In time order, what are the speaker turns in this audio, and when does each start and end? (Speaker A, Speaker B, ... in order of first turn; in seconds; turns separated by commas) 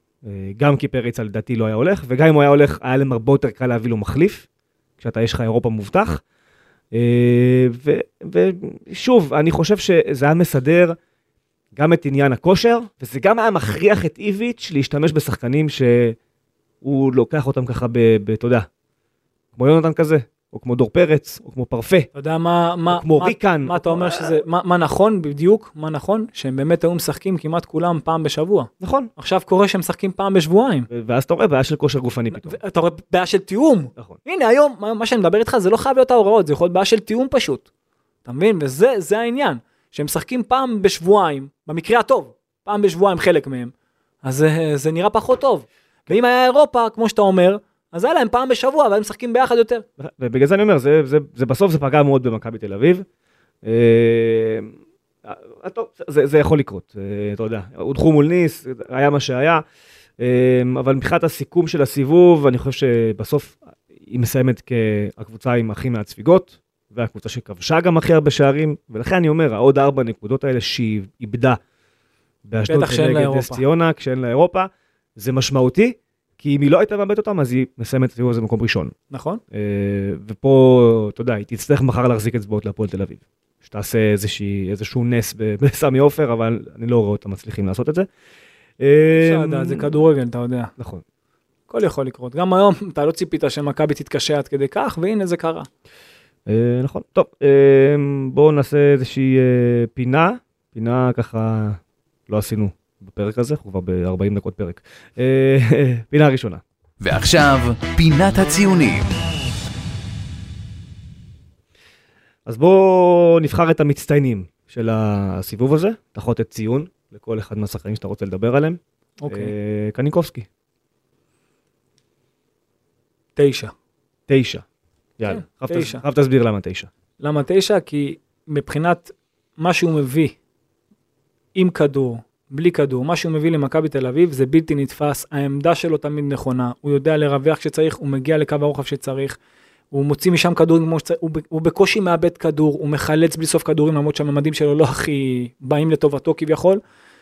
Speaker A: 0.2-4.5, Speaker A: 5.0-6.2, Speaker A: 6.9-11.0, Speaker A: 11.8-16.2, Speaker A: 16.8-18.7, Speaker A: 19.6-22.1, Speaker B: 22.1-30.9, Speaker A: 22.9-24.4, Speaker A: 28.8-29.1, Speaker A: 30.9-32.6, Speaker B: 32.3-37.7, Speaker B: 38.2-43.7, Speaker B: 44.2-49.9, Speaker A: 50.0-53.1, Speaker A: 53.6-59.6, Speaker A: 60.2-71.6, Speaker A: 72.5-78.9, Speaker B: 72.7-73.6, Speaker B: 79.1-79.4, Speaker A: 79.5-88.1, Speaker A: 88.8-90.0, Speaker B: 89.1-90.7, Speaker A: 90.8-91.0, Speaker B: 91.7-95.7, Speaker A: 96.5-106.6, Speaker C: 107.0-109.1, Speaker A: 112.5-120.5, Speaker B: 119.2-119.5, Speaker B: 123.4-123.7, Speaker A: 124.3-124.7, Speaker A: 125.2-126.9, Speaker B: 125.3-126.0, Speaker B: 127.2-130.3, Speaker B: 131.6-139.4, Speaker B: 139.9-146.8